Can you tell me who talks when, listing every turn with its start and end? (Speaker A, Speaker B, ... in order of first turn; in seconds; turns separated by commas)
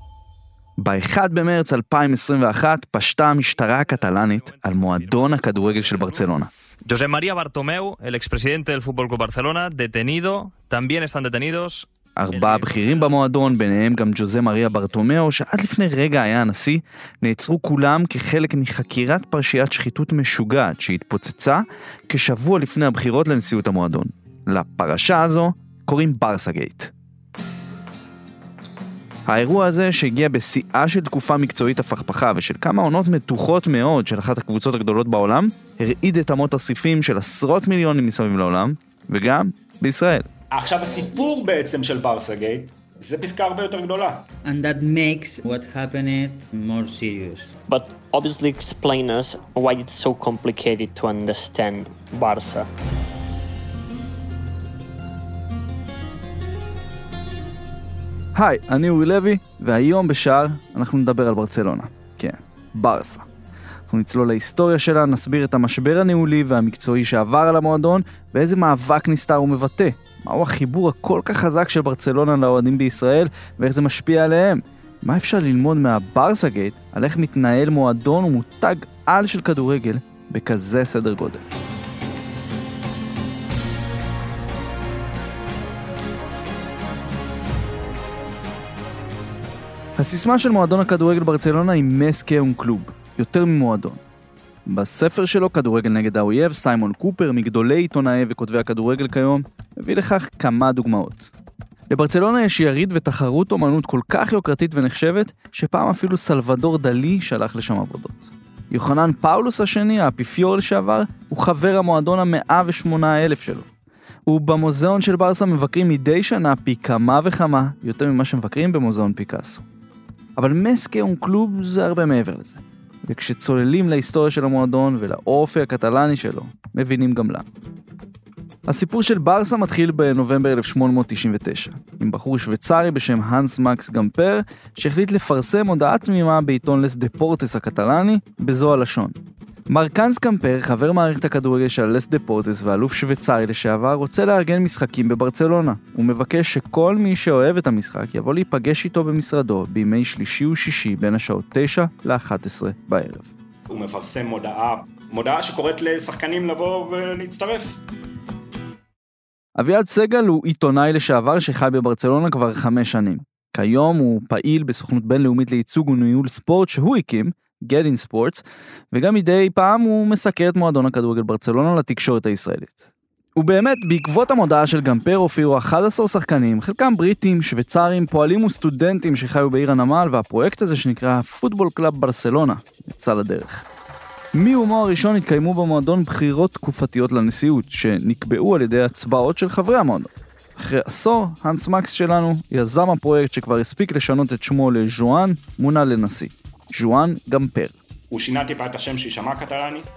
Speaker A: 0.8-6.5, Speaker B: 6.9-12.9, Speaker A: 12.2-26.9, Speaker A: 29.3-40.3, Speaker C: 40.5-44.3, Speaker D: 44.4-47.5, Speaker E: 47.7-52.7, Speaker A: 58.4-63.2, Speaker A: 63.9-81.4, Speaker A: 90.0-94.0, Speaker A: 94.7-101.3, Speaker A: 101.9-113.7, Speaker A: 114.3-119.6, Speaker A: 120.4-127.5, Speaker A: 128.7-139.2, Speaker A: 139.7-153.3, Speaker C: 153.7-157.8, Speaker A: 159.6-183.7, Speaker A: 184.3-197.8, Speaker C: 198.1-199.9